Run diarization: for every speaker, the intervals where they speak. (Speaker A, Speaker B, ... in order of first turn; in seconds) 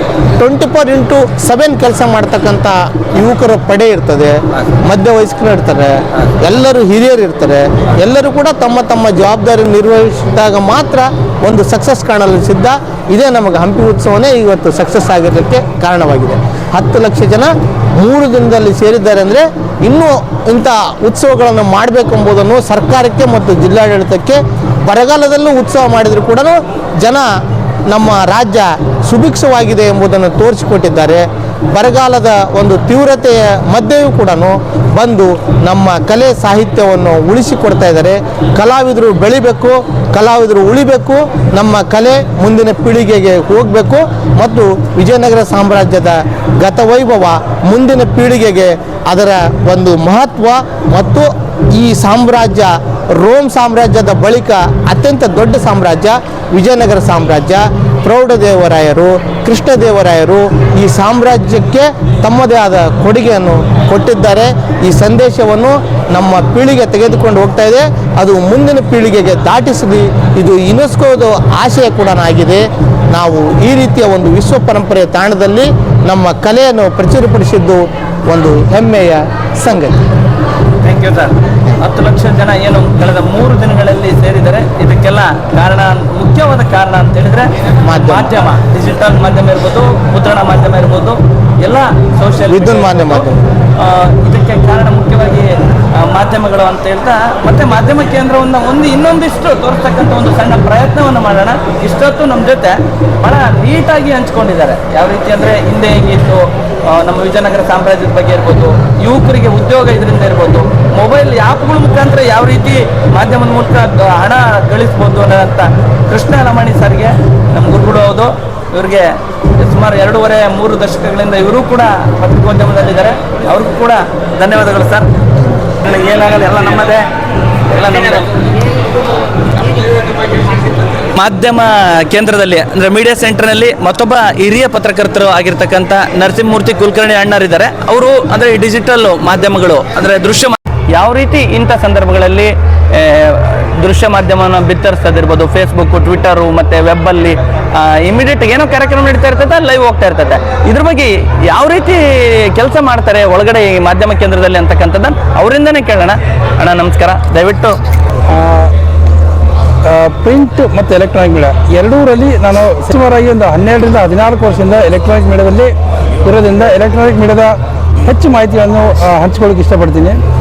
Speaker A: 0.4-80.1, 87.9-88.3, 92.5-93.4
Speaker B: 80.8-87.5, 88.0-125.1, 125.6-127.1, 127.7-128.3, 131.1-157.8
Speaker C: 158.3-158.7, 159.8-165.7, 166.2-170.2